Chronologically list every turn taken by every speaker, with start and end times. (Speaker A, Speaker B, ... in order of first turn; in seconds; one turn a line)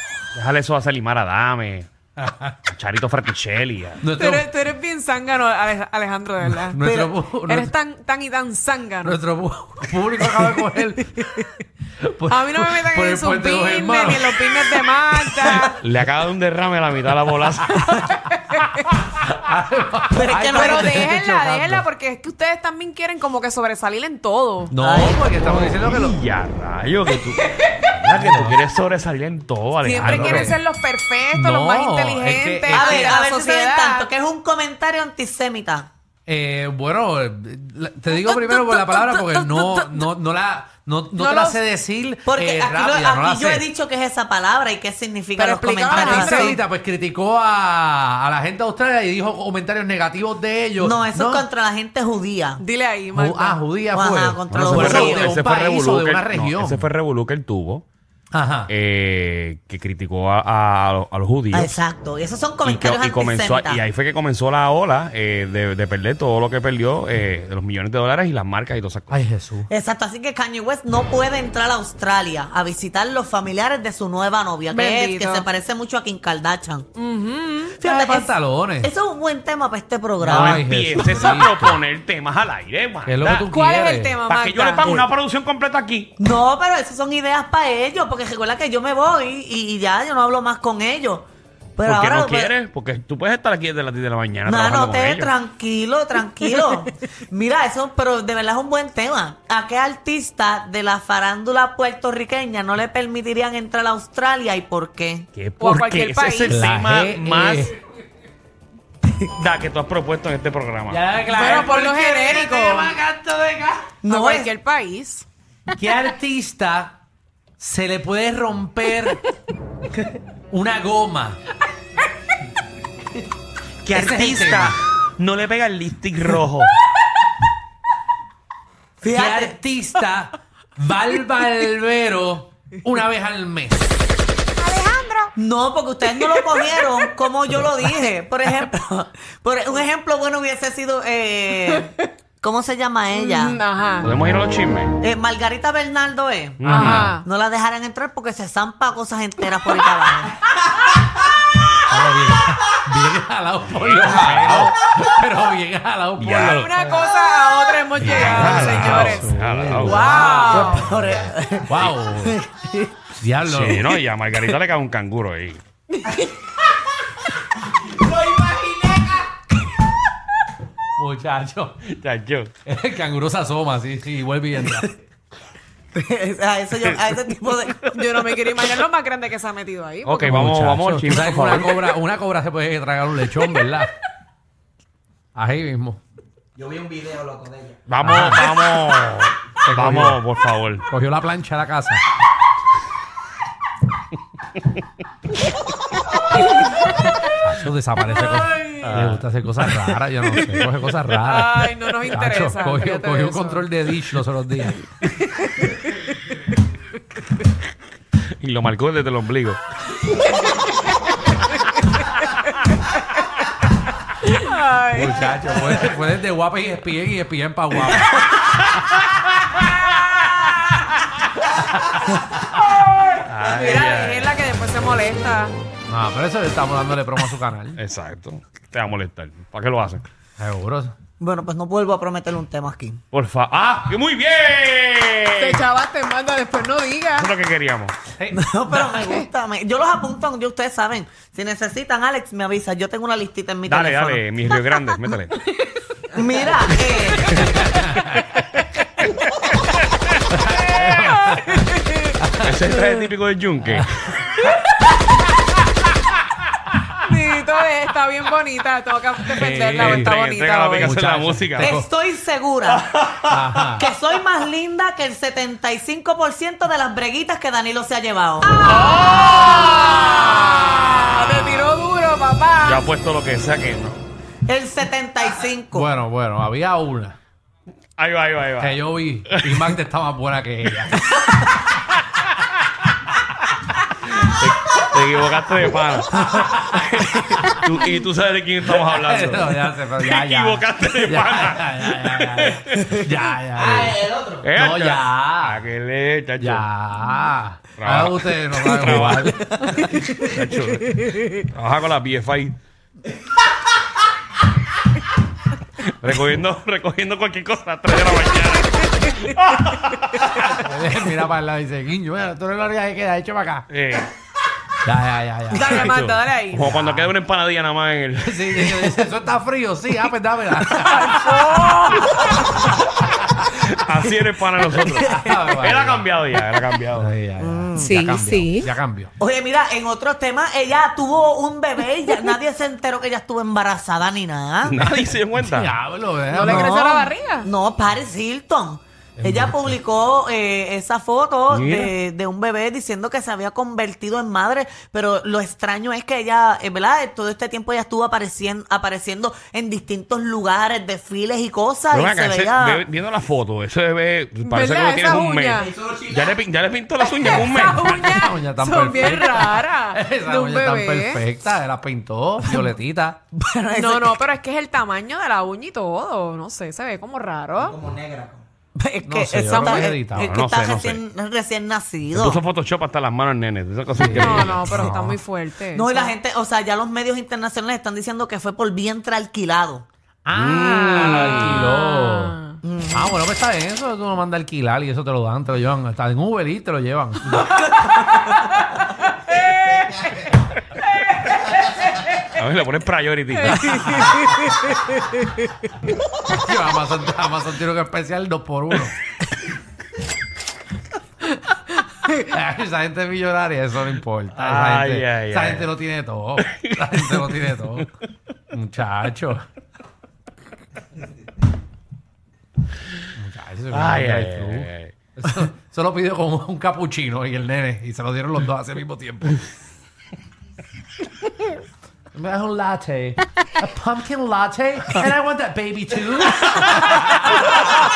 Speaker A: 0.3-1.9
Speaker A: 2.7-4.0
Speaker B: 4.0-4.5
Speaker C: 4.1-9.2
Speaker B: 6.8-7.7
Speaker B: 9.1-11.3
Speaker C: 11.2-11.5
Speaker B: 12.0-14.4
Speaker C: 12.3-15.8
Speaker A: 15.4-17.8
Speaker C: 17.9-18.9
Speaker B: 19.2-21.8
Speaker D: 20.1-21.1
Speaker C: 20.4-24.7
Speaker B: 24.7-26.2
Speaker D: 24.8-25.2
Speaker A: 25.3-30.6
Speaker B: 28.2-28.6
Speaker C: 29.8-34.1
Speaker B: 30.0-30.5
Speaker B: 31.4-33.1
Speaker D: 32.7-35.9
Speaker E: 36.3-38.1
Speaker B: 36.3-43.6
Speaker C: 38.5-39.8
Speaker E: 38.9-42.1
Speaker C: 41.2-41.6
Speaker D: 42.3-46.6
Speaker C: 45.4-46.6
Speaker B: 45.9-51.4
Speaker E: 46.5-47.6
Speaker E: 48.2-50.6
Speaker D: 50.8-52.6
Speaker C: 52.6-53.6
Speaker B: 53.1-56.9
Speaker D: 53.9-55.4
Speaker A: 54.5-57.9
Speaker B: 58.3-58.7
Speaker A: 58.7-61.8
Speaker D: 61.5-63.8
Speaker A: 62.6-69.2
Speaker B: 69.1-69.6
Speaker D: 69.7-76.9
Speaker C: 74.7-75.5
Speaker C: 77.0-77.8
Speaker D: 77.8-80.7
Speaker B: 77.8-78.9
Speaker B: 80.2-81.8
Speaker A: 80.3-83.5
Speaker B: 83.1-84.2
Speaker C: 83.3-84.9
Speaker A: 84.2-86.1
Speaker D: 86.2-92.5
Speaker A: 91.8-95.3
Speaker D: 94.5-105.3
Speaker A: 105.3-107.7
Speaker C: 105.6-106.6
Speaker B: 106.5-107.7
Speaker A: 109.2-111.0
Speaker B: 110.9-113.8
Speaker C: 111.3-112.9
Speaker E: 113.0-113.3
Speaker D: 114.0-114.5
Speaker C: 114.1-115.3
Speaker B: 115.8-117.0
Speaker E: 115.8-116.8
Speaker E: 117.6-118.7
Speaker B: 117.6-119.2
Speaker E: 120.5-121.4
Speaker B: 120.8-121.3
Speaker A: 123.8-126.7
Speaker B: 123.9-124.8
Speaker D: 129.0-129.6
Speaker B: 129.1-134.0
Speaker C: 134.6-135.3
Speaker D: 135.4-143.6
Speaker C: 143.1-144.1
Speaker A: 144.0-145.0
Speaker D: 145.0-150.4
Speaker A: 146.6-147.2
Speaker C: 146.7-147.2
Speaker B: 151.9-156.7
Speaker E: 152.9-153.1
Speaker A: 153.7-154.7
Speaker E: 155.2-155.8
Speaker A: 156.2-156.9
Speaker C: 156.5-160.9
Speaker A: 158.0-160.1
Speaker B: 158.1-160.7
Speaker D: 160.3-162.9
Speaker B: 161.7-162.4
Speaker B: 163.2-163.8
Speaker A: 163.4-165.6
Speaker B: 171.0-171.8
Speaker E: 171.2-171.6
Speaker A: 171.8-172.6
Speaker B: 172.7-174.9
Speaker E: 172.7-174.4
Speaker D: 175.9-177.9
Speaker C: 177.9-180.4
Speaker A: 180.1-181.8
Speaker B: 180.3-183.9
Speaker C: 181.2-181.8
Speaker E: 182.0-183.8
Speaker E: 185.4-186.0
Speaker B: 185.4-186.0
Speaker E: 186.6-187.6
Speaker A: 187.9-190.9
Speaker B: 188.0-188.5
Speaker B: 189.7-190.2
Speaker E: 190.9-191.9
Speaker B: 191.0-192.0
Speaker B: 197.5-204.7
Speaker E: 197.5-197.9
Speaker C: 198.4-198.8
Speaker A: 198.8-199.2
Speaker E: 200.1-201.1
Speaker C: 201.2-203.9
Speaker C: 204.9-205.9
Speaker A: 208.4-209.6
Speaker C: 214.2-215.3
Speaker B: 215.1-218.1
Speaker E: 216.2-218.0
Speaker A: 223.3-224.4
Speaker C: 223.4-225.6
Speaker B: 225.9-227.8
Speaker E: 226.0-226.8
Speaker A: 227.8-230.1
Speaker B: 230.4-230.9
Speaker E: 230.5-230.9
Speaker D: 231.2-233.0
Speaker A: 233.1-235.7
Speaker C: 235.4-237.3
Speaker A: 237.1-238.0
Speaker D: 238.3-244.2
Speaker C: 238.8-239.2
Speaker A: 243.7-245.4
Speaker D: 246.1-247.5
Speaker A: 247.1-247.6
Speaker B: 250.4-251.6
Speaker C: 250.8-252.1
Speaker B: 252.2-252.5
Speaker A: 252.4-253.9
Speaker C: 257.0-261.0
Speaker B: 259.3-260.0
Speaker A: 259.8-261.8
Speaker B: 260.9-261.8
Speaker D: 261.6-262.8
Speaker A: 262.9-263.9
Speaker B: 263.3-263.7
Speaker D: 263.8-268.7
Speaker A: 268.7-271.7
Speaker C: 268.7-272.8
Speaker A: 272.6-274.0
Speaker D: 274.5-275.9
Speaker B: 275.8-277.1
Speaker E: 276.6-277.1
Speaker A: 278.0-279.7
Speaker B: 278.6-280.9
Speaker E: 280.0-280.4
Speaker A: 281.1-282.1
Speaker A: 284.1-293.2
Speaker B: 286.2-286.8
Speaker B: 288.7-295.6
Speaker E: 293.8-294.1
Speaker A: 294.2-296.6
Speaker B: 296.4-300.1
Speaker A: 297.8-299.4
Speaker A: 300.2-302.6
Speaker A: 305.8-310.6
Speaker B: 310.7-313.6
Speaker E: 311.3-312.6
Speaker A: 313.7-314.1
Speaker B: 314.9-315.8
Speaker C: 315.5-316.7
Speaker A: 315.6-318.9
Speaker B: 316.6-317.1
Speaker B: 318.2-321.2
Speaker E: 319.1-319.5
Speaker C: 320.9-322.2
Speaker A: 323.4-327.1
Speaker B: 325.1-326.1
Speaker B: 327.0-329.1
Speaker D: 327.4-328.0
Speaker C: 327.8-328.7
Speaker D: 329.2-334.8
Speaker A: 334.6-335.7
Speaker B: 334.9-336.8
Speaker D: 336.3-352.9
Speaker C: 336.3-337.5
Speaker B: 339.2-339.5
Speaker A: 341.5-341.9
Speaker A: 351.9-358.2
Speaker C: 354.4-355.7
Speaker C: 357.0-361.2
Speaker B: 357.9-363.2
Speaker D: 363.3-364.2
Speaker C: 363.8-367.8
Speaker D: 368.8-372.4
Speaker B: 369.1-370.3
Speaker C: 369.5-369.9
Speaker A: 370.2-371.0
Speaker A: 372.1-374.7
Speaker B: 373.9-375.2
Speaker C: 374.2-376.1
Speaker D: 375.7-379.9
Speaker B: 380.3-382.4
Speaker A: 380.3-381.8
Speaker D: 381.0-381.4
Speaker C: 381.3-382.6
Speaker D: 382.6-383.2
Speaker B: 382.9-387.3
Speaker E: 383.9-387.1
Speaker A: 392.3-394.2
Speaker B: 396.3-398.9
Speaker E: 397.6-398.5
Speaker B: 402.2-407.8
Speaker E: 403.7-404.2
Speaker A: 404.3-405.8
Speaker A: 406.5-407.9
Speaker B: 408.6-409.4
Speaker E: 408.6-409.4
Speaker B: 413.2-419.4
Speaker A: 413.7-414.9
Speaker E: 415.4-418.1
Speaker E: 418.6-419.1
Speaker B: 422.2-427.0
Speaker E: 422.2-423.1
Speaker E: 423.6-424.5